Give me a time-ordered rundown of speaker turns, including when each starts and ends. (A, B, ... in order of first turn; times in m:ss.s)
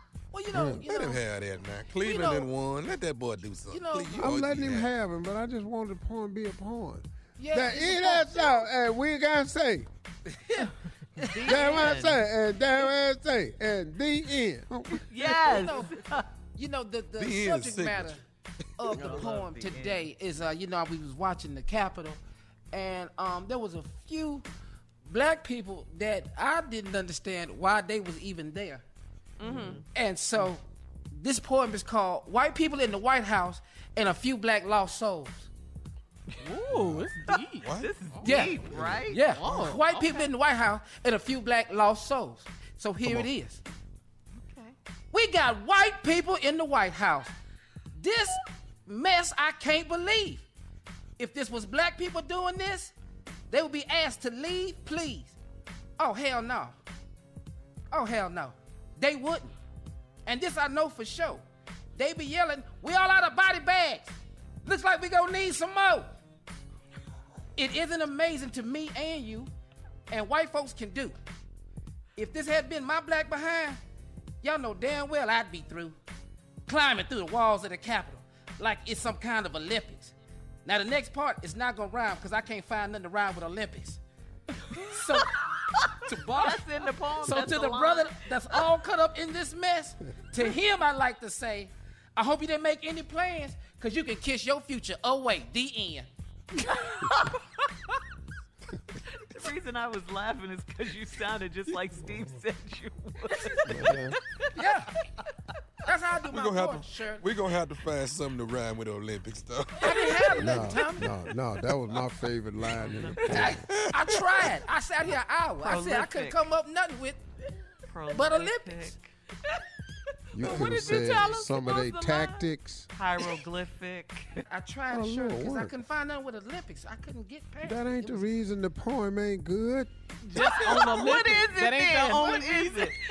0:00.3-0:01.2 A
0:00.5-0:00.9 B
0:00.9-0:04.9 C
0:02.0-0:02.5 A
0:03.7-0:04.4 A
0:04.2-0:09.9 B
0:07.4-0:08.7 A
0:10.4-0:10.7 A
0:11.3-0:12.0 A
0:11.3-0:12.2 D
0:11.4-0:15.0 B
0:15.0-0:16.2 D
0:15.2-0:16.0 A
0:16.6-0:18.2 A
0:17.2-0:18.2 C
0:18.8-0:22.2 A
0:18.8-0:20.1 D
0:22.7-0:24.4 A
0:25.1-0:28.8 A
0:29.4-0:29.8 E
0:29.4-0:29.8 D
0:29.9-0:35.5 A
0:36.4-0:37.8 E
0:36.8-0:37.0 C
0:37.6-0:37.9 C
0:37.8-0:39.5 D
0:38.2-0:43.6 A
0:39.3-0:40.3 E
0:45.1-0:47.3 A
0:48.0-0:50.4 A
0:51.2-0:52.9 A
0:53.5-0:55.4 A
0:56.0-0:56.8 A
0:57.9-0:59.5 A
1:00.3-1:01.4 A
1:02.0-1:04.1 A
1:04.6-1:06.1 A
1:07.6-1:09.5 A
1:10.1-1:11.2 A
1:12.2-1:13.8 A
1:14.4-1:16.0 A
1:16.7-1:20.1 A
1:20.7-1:24.0 A
1:24.9-1:25.4 A
1:26.1-1:26.6 A
1:26.4-1:28.3 D
1:27.2-1:36.1 A
1:36.6-1:37.4 D
1:39.2-1:44.0 D
1:43.6-1:44.2 B
1:44.6-1:44.9 A
1:45.9-1:47.3 A
1:46.3-1:50.0 C
1:49.8-1:51.1 A
1:50.4-1:53.6 B
1:52.8-1:53.5 D
1:53.3-1:57.2 A
1:53.5-1:54.1 C
1:55.6-1:56.4 D
1:57.9-1:59.1 D
1:58.1-1:58.9 A
2:00.3-2:02.9 B
2:00.4-2:02.3 E
2:00.5-2:01.8 D
2:02.9-2:04.3 D
2:04.5-2:08.3 A
2:04.9-2:05.7 B
2:07.6-2:09.9 B
2:10.2-2:13.0 E
2:10.4-2:13.0 D